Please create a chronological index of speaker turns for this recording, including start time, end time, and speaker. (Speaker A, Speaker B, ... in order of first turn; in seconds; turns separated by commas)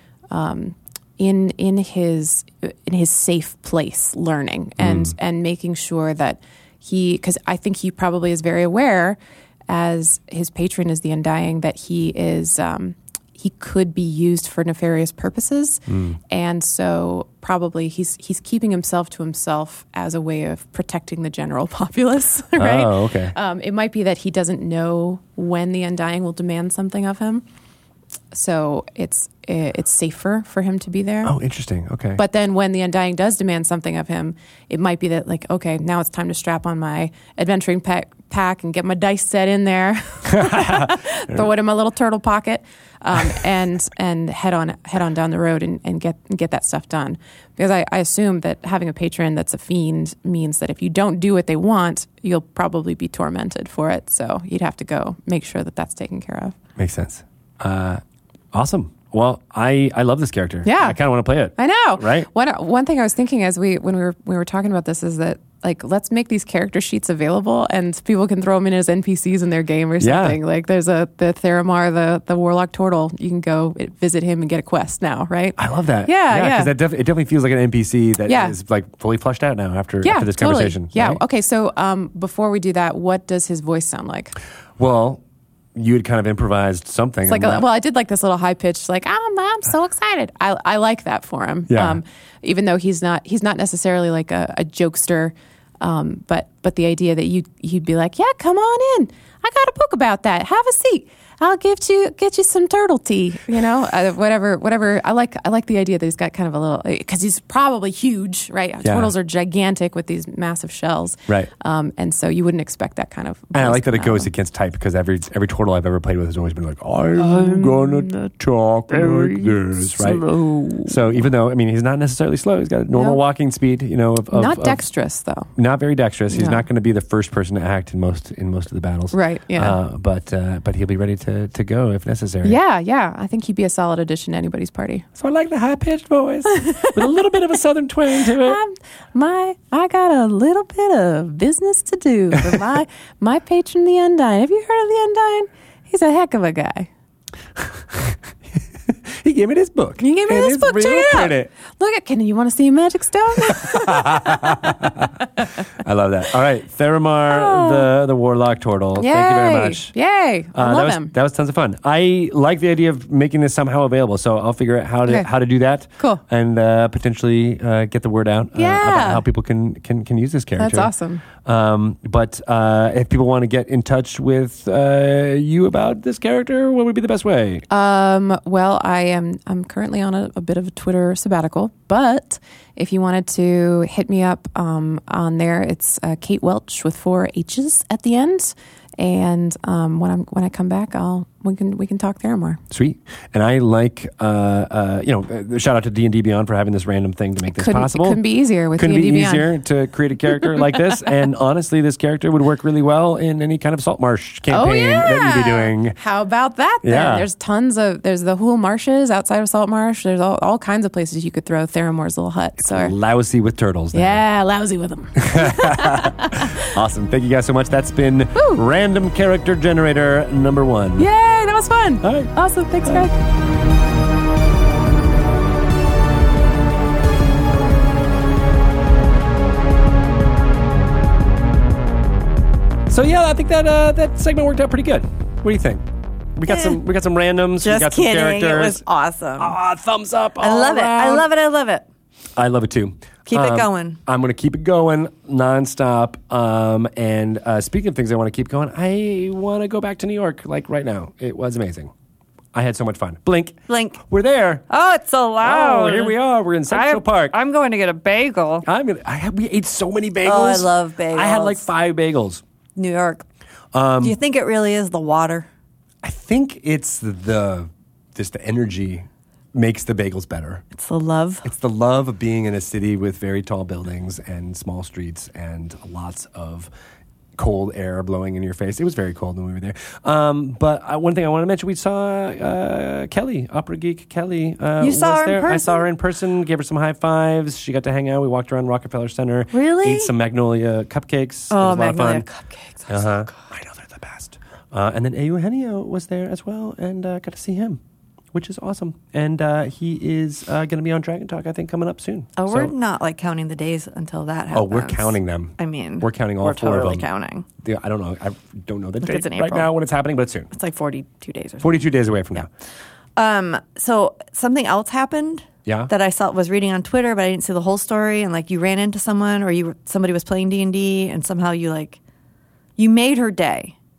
Speaker A: 0.3-9.2, Speaker B: 4.8-5.1, Speaker A: 9.7-27.4, Speaker B: 15.9-16.2, Speaker B: 22.6-23.3, Speaker A: 28.3-31.3, Speaker B: 31.2-32.2, Speaker A: 32.2-56.6, Speaker B: 40.3-41.4, Speaker B: 56.8-58.0, Speaker B: 58.5-62.3, Speaker A: 60.6-61.0, Speaker A: 61.5-76.7, Speaker B: 70.0-70.4, Speaker B: 75.6-81.2, Speaker A: 78.3-78.5, Speaker A: 80.0-84.3, Speaker B: 84.8-85.2, Speaker B: 85.7-87.6, Speaker A: 87.3-114.3, Speaker B: 91.7-92.0, Speaker B: 108.8-109.1, Speaker B: 113.5-124.8, Speaker A: 117.3-118.1, Speaker A: 120.0-120.9, Speaker A: 122.9-123.2, Speaker A: 124.3-125.5, Speaker B: 125.5-132.6, Speaker A: 126.3-126.6, Speaker A: 129.1-129.8, Speaker A: 132.4-135.0, Speaker B: 135.1-138.6, Speaker A: 136.5-137.1, Speaker A: 138.2-146.9, Speaker B: 147.9-148.2, Speaker B: 148.9-151.5, Speaker A: 150.0-154.9, Speaker B: 153.5-155.1, Speaker B: 155.8-159.9, Speaker A: 157.3-157.9, Speaker A: 159.0-161.1, Speaker B: 160.5-170.9, Speaker A: 168.5-169.2, Speaker A: 170.6-171.2, Speaker B: 171.4-177.6, Speaker A: 177.7-192.6, Speaker B: 192.7-198.2, Speaker A: 197.5-199.5, Speaker B: 198.8-206.0, Speaker A: 204.5-212.9, Speaker B: 206.8-207.3, Speaker B: 212.6-214.2, Speaker A: 213.9-216.7, Speaker B: 215.2-221.1, Speaker A: 218.3-218.6, Speaker A: 221.0-223.1, Speaker B: 222.0-222.3, Speaker B: 232.9-238.8, Speaker C: 236.5-236.8, Speaker C: 237.6-239.6, Speaker B: 239.4-241.3, Speaker C: 240.4-241.8, Speaker B: 242.3-251.9, Speaker C: 243.3-244.0, Speaker B: 252.5-254.6, Speaker C: 253.7-254.0, Speaker C: 254.7-258.6, Speaker B: 255.4-257.3, Speaker B: 258.6-262.4, Speaker C: 260.2-261.7, Speaker C: 262.8-263.2, Speaker B: 263.7-264.2, Speaker C: 264.0-265.5, Speaker B: 266.0-270.6, Speaker C: 270.7-271.5, Speaker B: 271.4-276.7, Speaker B: 277.4-292.2, Speaker C: 284.8-285.9, Speaker C: 289.5-290.1, Speaker C: 291.5-293.4, Speaker B: 292.9-297.8, Speaker B: 298.3-302.7, Speaker C: 302.4-307.4, Speaker B: 304.5-307.0, Speaker B: 307.6-310.5, Speaker C: 309.0-309.7, Speaker C: 310.5-311.9, Speaker B: 311.6-312.5, Speaker C: 313.1-322.0, Speaker C: 322.8-323.8